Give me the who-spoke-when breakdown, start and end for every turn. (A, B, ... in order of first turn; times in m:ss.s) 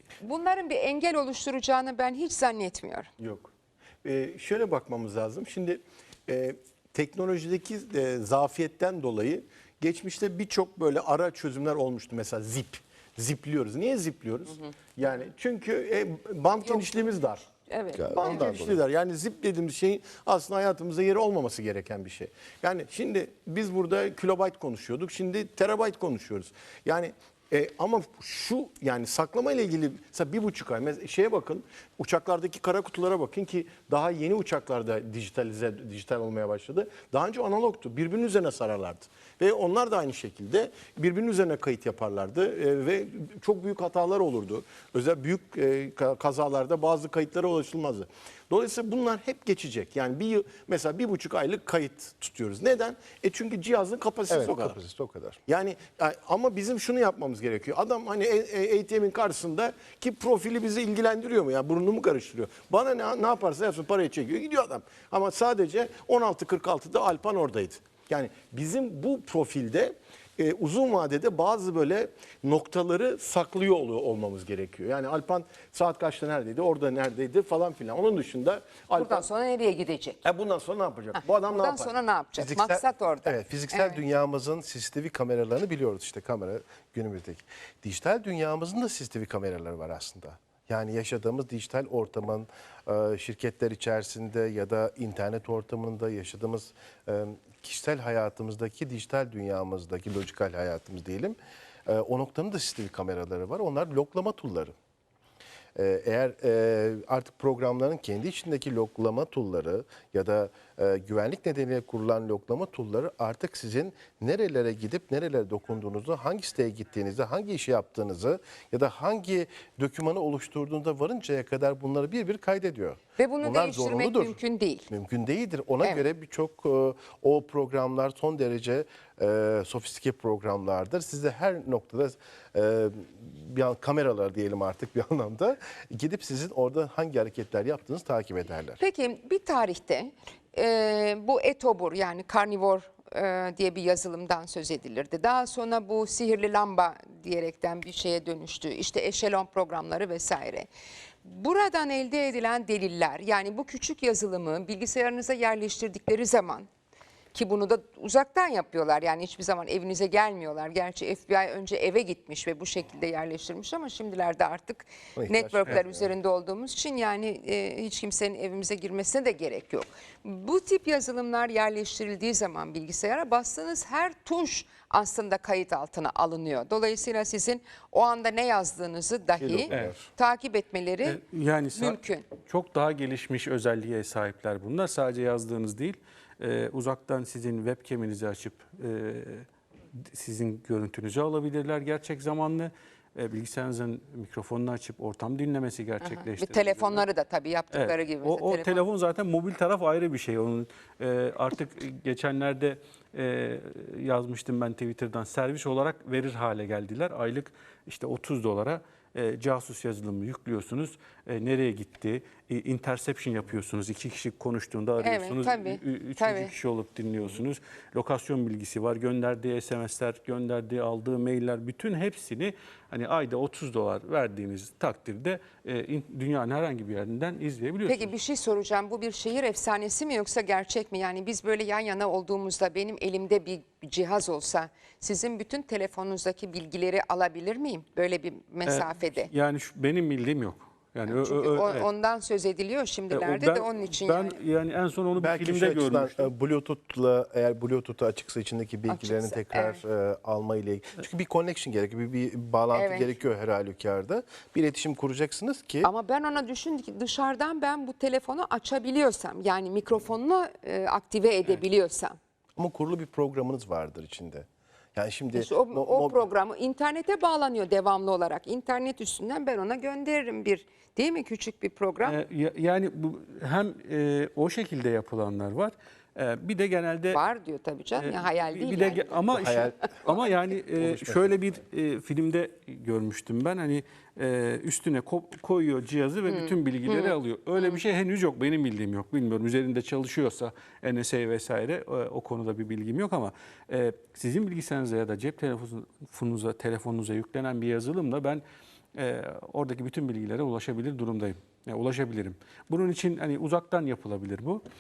0:00.2-0:03.1 A
0:03.2-0:03.5 B
0:04.0-0:17.4 B
0:16.6-0:18.5 A
0:17.9-0:18.8 C
0:18.1-0:54.8 B
0:54.3-0:55.4 C
0:55.5-1:19.3 B
1:18.9-1:20.2 A
1:20.2-1:22.0 B
1:21.2-1:24.0 A
1:22.4-1:44.7 C
1:45.8-2:18.8 C
2:03.2-2:04.9 A
2:18.8-2:30.7 A
2:31.2-2:36.7 A
2:37.3-3:01.2 A
2:45.2-2:46.1 C
2:59.4-3:00.0 C
2:59.7-3:00.0 D
3:01.0-3:09.5 D
3:01.7-3:02.3 A
3:10.1-3:17.0 D
3:16.0-3:18.8 A
3:17.7-3:48.1 D
3:35.0-3:36.5 A
3:47.9-3:59.3 A
3:58.7-4:01.9 D
4:01.1-4:04.4 A
4:03.1-4:06.3 D
4:05.2-4:15.9 C
4:08.9-4:09.8 A
4:12.7-4:13.1 A
4:15.8-4:22.2 A
4:22.6-4:26.2 C
4:25.4-4:32.2 A
4:32.0-4:37.2 D
4:37.1-4:39.1 A
4:38.0-4:58.4 D
4:39.3-4:40.1 C
4:40.8-4:41.4 C
4:46.3-4:47.8 A
4:59.0-5:04.6 D